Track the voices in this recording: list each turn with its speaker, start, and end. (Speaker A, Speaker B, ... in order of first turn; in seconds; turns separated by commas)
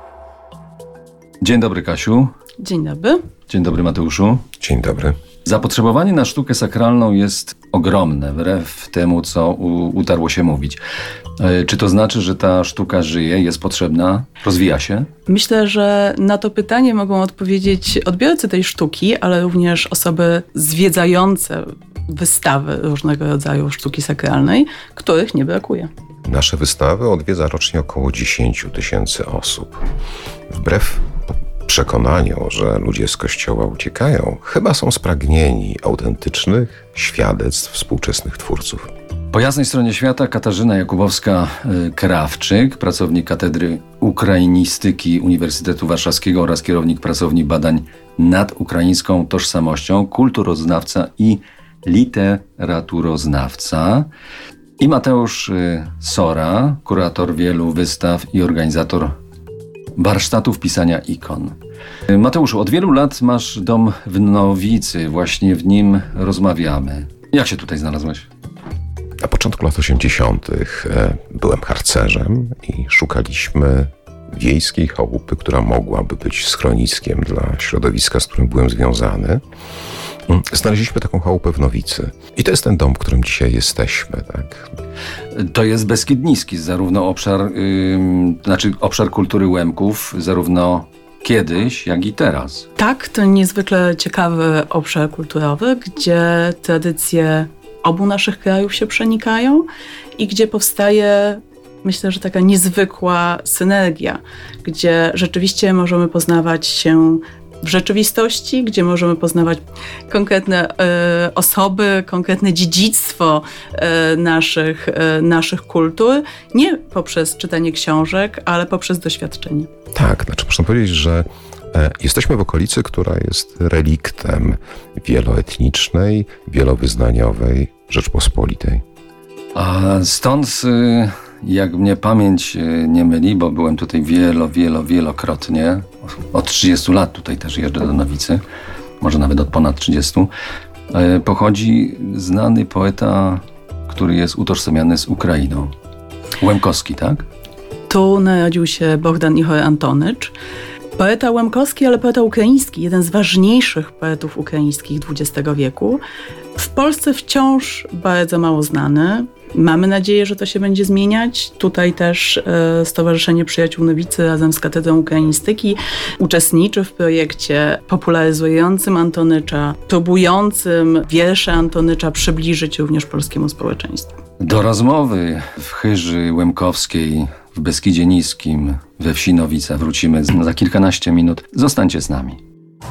Speaker A: 1.4-2.3, Speaker B: 2.6-3.3, Speaker A: 3.5-4.5, Speaker C: 4.6-5.2, Speaker A: 5.5-10.8, Speaker A: 11.4-15.1, Speaker B: 15.3-25.9, Speaker C: 26.3-29.8, Speaker C: 30.5-31.1, Speaker C: 31.6-38.9, Speaker A: 39.3-54.1, Speaker A: 54.8-59.1, Speaker A: 60.0-61.6, Speaker A: 62.1-68.3, Speaker C: 69.2-79.4, Speaker C: 80.3-84.7, Speaker A: 85.3-92.7, Speaker B: 92.8-119.7, Speaker C: 120.0-128.8, Speaker A: 129.6-138.4, Speaker A: 139.0-140.3, Speaker A: 140.9-145.7, Speaker A: 146.4-147.3, Speaker B: 147.9-150.3, Speaker B: 151.0-156.0, Speaker B: 156.6-174.1, Speaker A: 174.4-182.4